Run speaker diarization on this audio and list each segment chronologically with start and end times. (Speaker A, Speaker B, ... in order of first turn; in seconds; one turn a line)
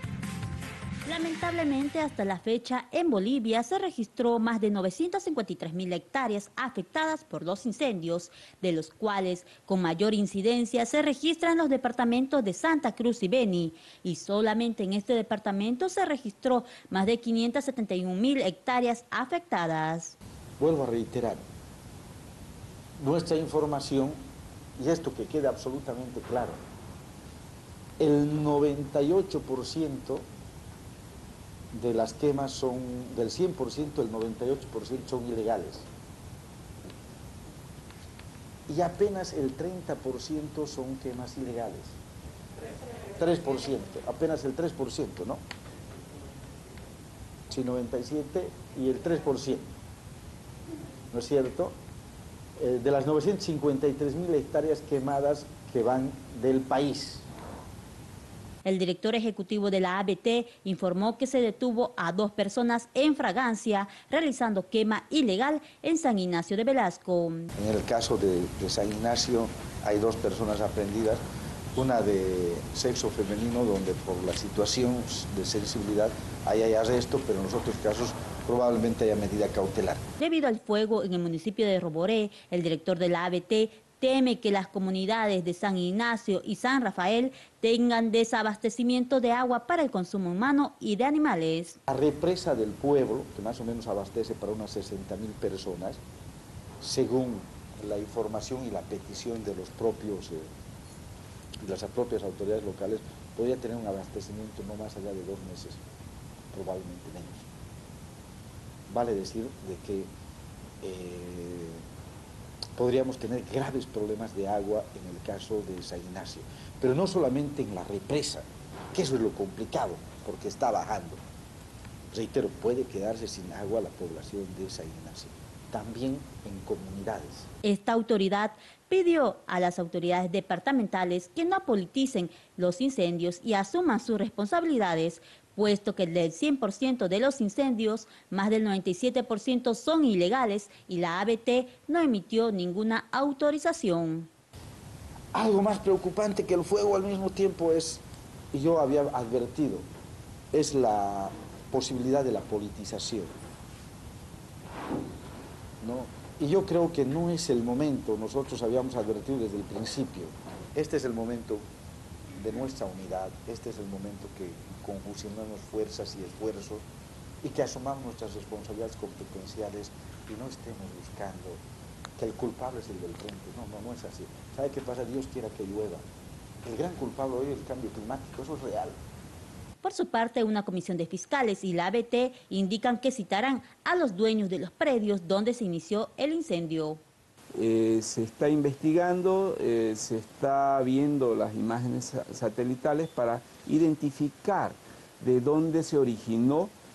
Speaker A: 1.1-20.1
Speaker B: 20.6-21.4
Speaker B: 23.0-24.2
Speaker B: 24.8-26.6
Speaker B: 28.0-30.2
Speaker B: 31.7-35.9
Speaker B: 38.7-42.0
Speaker B: 43.1-45.4
Speaker B: 47.5-49.7
Speaker B: 51.1-51.8
Speaker B: 52.6-57.2
Speaker A: 58.6-67.5
Speaker B: 67.6-71.2
Speaker B: 71.7-80.0
Speaker A: 80.2-91.8
Speaker B: 91.9-96.0
Speaker B: 96.8-100.5
Speaker B: 101.6-105.8
Speaker B: 106.5-107.5
Speaker B: 108.9-110.1
Speaker B: 110.8-111.8
Speaker B: 112.8-121.2
Speaker B: 122.1-127.5
Speaker A: 127.6-144.3
Speaker B: 145.3-149.9
Speaker B: 150.5-153.3
Speaker B: 155.8-161.6
Speaker B: 162.4-166.8
Speaker B: 167.4-171.6
Speaker B: 172.2-176.0
Speaker B: 176.6-179.0
Speaker A: 179.8-187.0
Speaker C: 187.5-196.7